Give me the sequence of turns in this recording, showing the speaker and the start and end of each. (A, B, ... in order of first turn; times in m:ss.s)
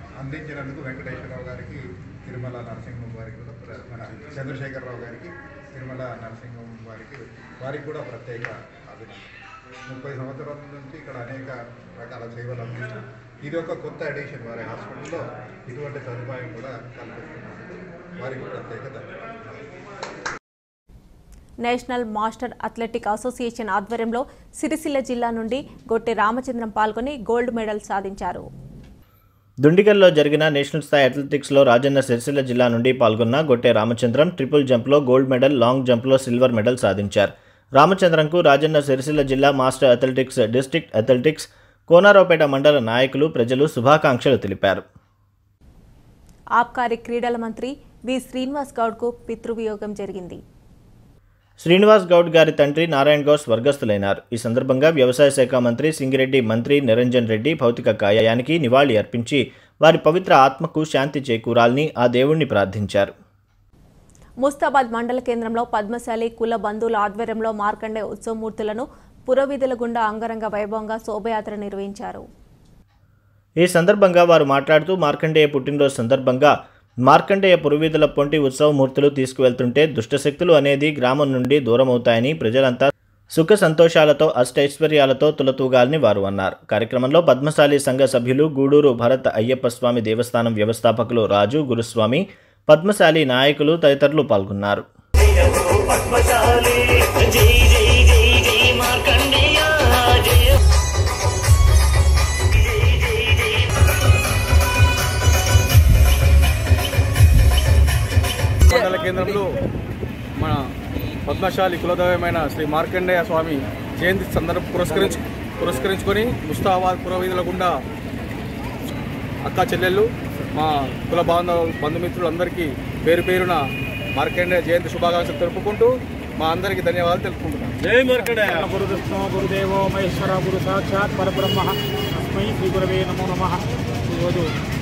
0:00.2-0:09.3 A
0:09.9-0:19.6 A
0:21.6-0:28.5 B
0:29.6-0:44.8 C
0:46.6-0:50.4 B
0:51.6-1:03.1 C
1:04.4-1:12.2 B
1:13.6-1:16.5 C
1:17.1-1:34.9 C
1:48.7-1:49.5 D
1:50.4-1:50.6 D
1:51.3-1:57.8 D
1:59.5-2:03.6 D
2:04.1-2:07.9 D
2:08.1-2:14.5 E